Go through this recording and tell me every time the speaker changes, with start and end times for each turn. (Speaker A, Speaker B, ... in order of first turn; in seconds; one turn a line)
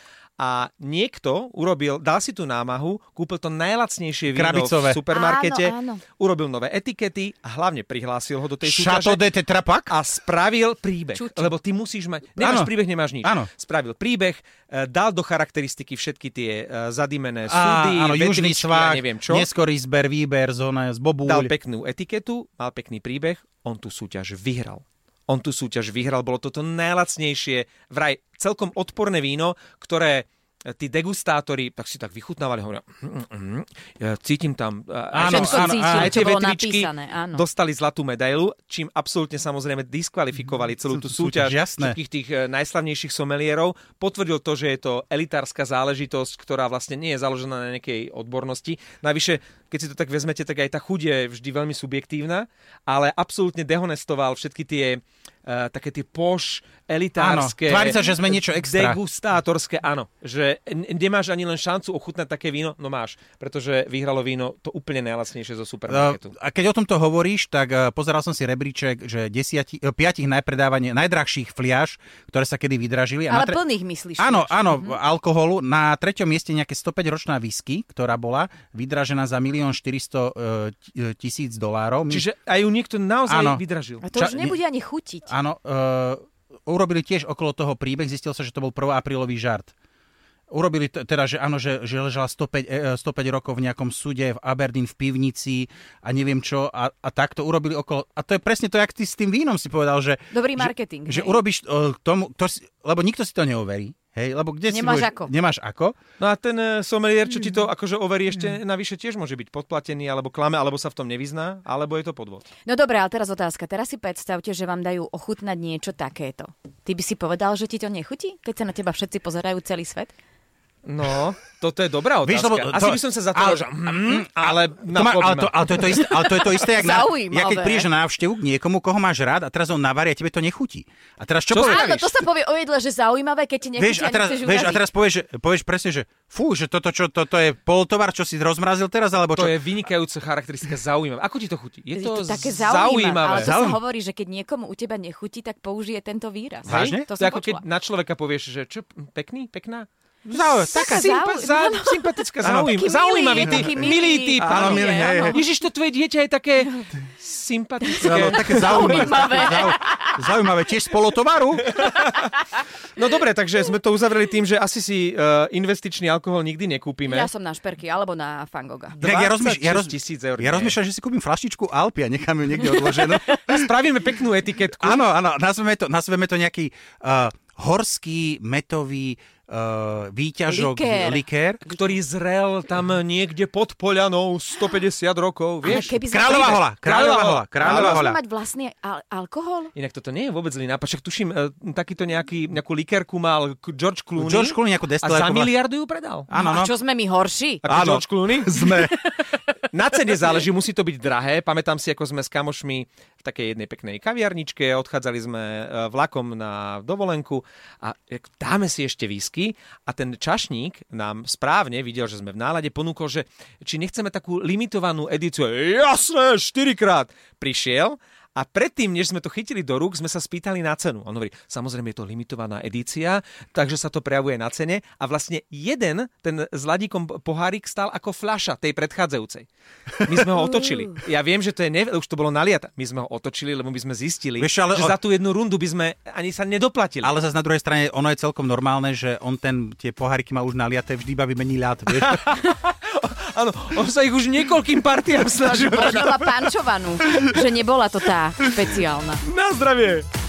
Speaker A: 0.4-9.2
Speaker B: 4.3-5.0
Speaker C: 5.1-6.0
Speaker B: 8.6-9.9
Speaker A: 9.9-19.5
Speaker C: 11.2-11.5
Speaker B: 12.4-13.5
Speaker B: 17.5-21.5
Speaker A: 21.2-66.3
Speaker B: 35.1-36.2
Speaker C: 35.2-37.4
Speaker B: 40.9-42.0
Speaker B: 57.2-59.0
Speaker B: 65.9-73.6
Speaker C: 73.3-75.0
Speaker B: 74.2-82.3
Speaker A: 82.1-84.1
Speaker B: 83.3-83.6
Speaker C: 84.0-85.3
Speaker B: 84.1-84.6
Speaker B: 85.3-89.7
Speaker B: 90.5-106.0
Speaker C: 100.3-101.4
Speaker C: 104.7-105.3
Speaker A: 106.2-112.5
Speaker C: 112.7-120.1
Speaker A: 120.8-126.0
Speaker B: 122.2-132.0
Speaker C: 125.8-127.9
Speaker A: 131.5-132.1
Speaker C: 131.6-134.9
Speaker B: 133.8-139.6
Speaker A: 139.3-143.5
Speaker C: 141.9-147.6
Speaker B: 143.3-143.8
Speaker A: 146.7-149.9
Speaker B: 146.7-147.1
Speaker B: 150.3-151.1
Speaker C: 150.6-155.4
Speaker A: 150.7-159.7
Speaker B: 152.4-152.8
Speaker B: 153.4-155.4
Speaker C: 157.9-160.2
Speaker B: 158.0-161.8
Speaker A: 161.7-162.3
Speaker A: 163.0-167.3
Speaker C: 167.1-169.0
Speaker A: 168.9-170.8
Speaker B: 169.0-173.7
Speaker A: 172.9-175.1
Speaker B: 174.8-181.7
Speaker C: 180.5-181.9
Speaker A: 181.7-188.0
Speaker B: 185.6-188.2
Speaker C: 185.7-186.7
Speaker C: 187.6-189.7
Speaker A: 189.7-196.3
Speaker B: 194.2-195.5
Speaker B: 196.3-196.7
Speaker C: 196.3-197.7
Speaker A: 197.6-229.5
Speaker B: 197.7-199.1
Speaker A: 230.0-237.1
Speaker B: 234.4-234.9
Speaker B: 237.0-242.2
Speaker A: 241.9-246.4
Speaker C: 245.4-249.2
Speaker A: 249.2-250.1